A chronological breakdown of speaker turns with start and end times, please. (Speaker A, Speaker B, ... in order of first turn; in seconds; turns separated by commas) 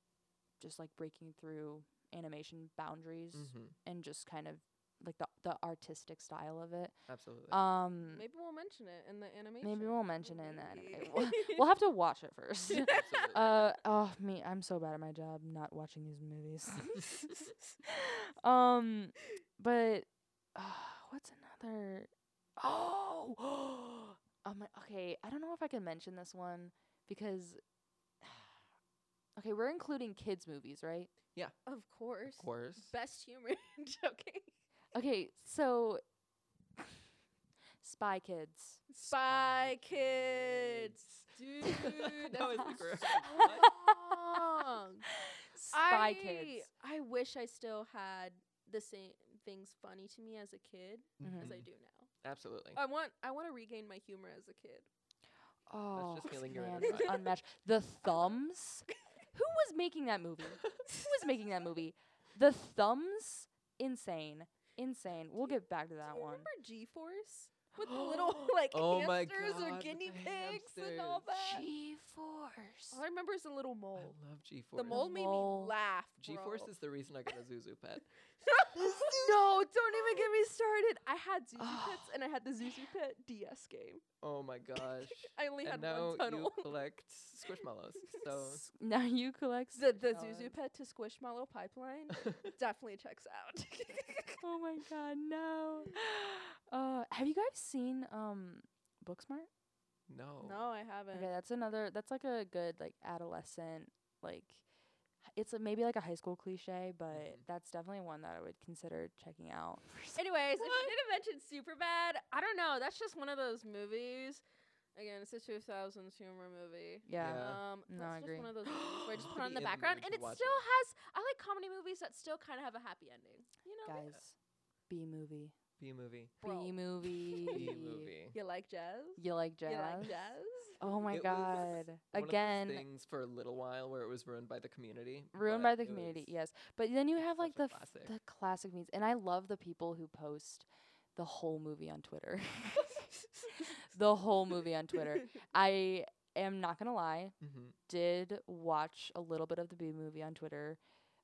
Speaker A: 0.6-7.0, Speaker B: 3.3-3.8, Speaker B: 7.1-7.6, Speaker A: 7.5-8.2, Speaker C: 8.1-11.6, Speaker A: 9.6-27.6, Speaker C: 12.7-13.1, Speaker B: 12.8-13.7, Speaker A: 28.2-28.5, Speaker A: 29.4-31.1, Speaker C: 31.7-34.5, Speaker B: 32.4-32.9, Speaker A: 35.0-36.0, Speaker A: 37.8-38.8, Speaker C: 38.9-45.1, Speaker B: 39.0-43.7, Speaker A: 43.0-46.7, Speaker C: 45.7-52.1, Speaker B: 51.2-51.7, Speaker A: 51.2-51.5, Speaker B: 52.2-52.8, Speaker C: 52.7-54.9, Speaker A: 55.7-66.5, Speaker B: 55.9-57.3, Speaker C: 56.3-57.3, Speaker C: 60.9-61.5, Speaker C: 65.4-71.7, Speaker A: 67.8-68.5, Speaker B: 68.7-71.6, Speaker A: 71.5-73.0, Speaker C: 72.9-74.2, Speaker B: 74.0-75.0, Speaker C: 74.8-76.7, Speaker A: 74.9-75.7, Speaker B: 76.2-78.1, Speaker C: 78.4-84.0, Speaker B: 78.7-79.5, Speaker A: 81.6-82.2, Speaker B: 84.2-88.7, Speaker C: 84.8-86.7, Speaker C: 88.0-88.3, Speaker A: 88.4-90.5, Speaker C: 89.8-94.4, Speaker A: 94.4-99.5, Speaker B: 100.1-100.6, Speaker C: 100.4-101.3, Speaker A: 101.1-104.6, Speaker A: 105.3-110.9, Speaker B: 107.1-107.5, Speaker C: 110.2-114.4, Speaker C: 115.0-124.2, Speaker A: 117.1-118.5, Speaker B: 117.2-117.6, Speaker B: 119.1-120.7, Speaker A: 123.8-124.4, Speaker A: 124.9-125.5, Speaker B: 125.8-126.4, Speaker C: 126.4-127.8, Speaker A: 126.4-128.1, Speaker B: 127.5-128.4, Speaker C: 128.3-130.8, Speaker A: 129.2-132.8, Speaker B: 131.1-136.3, Speaker A: 135.3-147.4, Speaker B: 137.2-138.1, Speaker B: 147.4-147.8, Speaker A: 147.9-150.8